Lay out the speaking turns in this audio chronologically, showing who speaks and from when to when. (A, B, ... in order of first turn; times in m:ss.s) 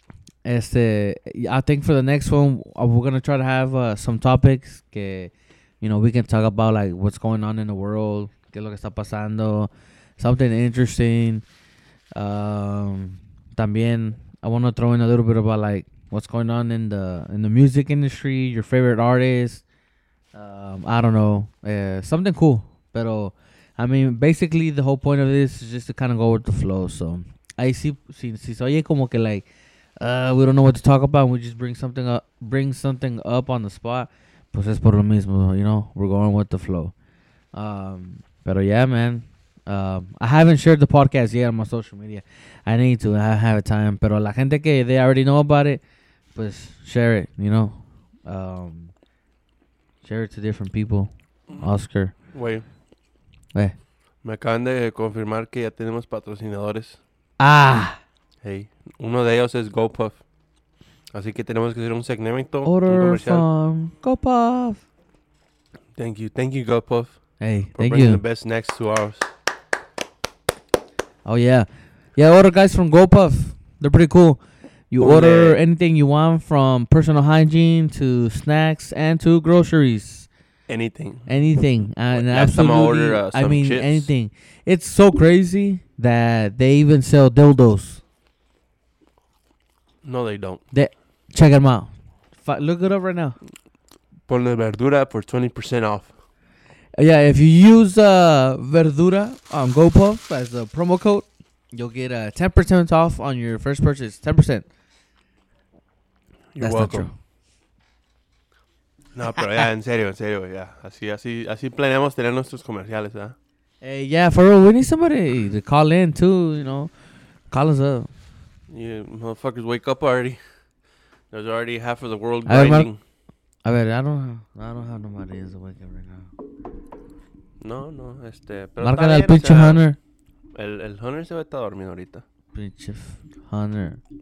0:00.4-0:11.4 A
0:12.1-0:19.6 A
0:20.3-0:29.4 A
0:30.0-0:36.9 A
0:37.5-0:45.8 A
0:46.3-0:48.9 A
0:50.0-0:52.2 A
0:52.3-0:52.6 B
0:54.2-0:57.0 B
0:57.4-0:58.0 A
0:58.4-1:00.2 B
1:01.1-1:03.4 B
1:02.6-1:04.8 A
1:06.0-1:07.2 B
1:07.4-1:08.2 A
1:07.7-1:09.3 B
1:11.2-1:20.3 A
1:15.0-1:15.6 B
1:20.7-1:21.3 B
1:21.3-1:28.0 A
1:22.1-1:24.1 B
1:30.0-1:30.6 B
1:30.7-1:33.4 A
1:34.3-1:36.1 B
1:37.0-1:44.7 A
1:46.5-1:47.1 B
1:46.6-1:47.1 A
1:49.1-1:53.4 B
1:53.8-1:56.9 A
1:57.5-1:58.1 A
1:58.7-2:00.4 B
2:01.3-2:03.0 B
2:02.5-2:02.9 A
2:03.6-2:06.3 A
2:07.6-2:09.8 B
2:08.8-2:10.0 A
2:10.5-2:12.2 B
2:12.5-2:14.0 A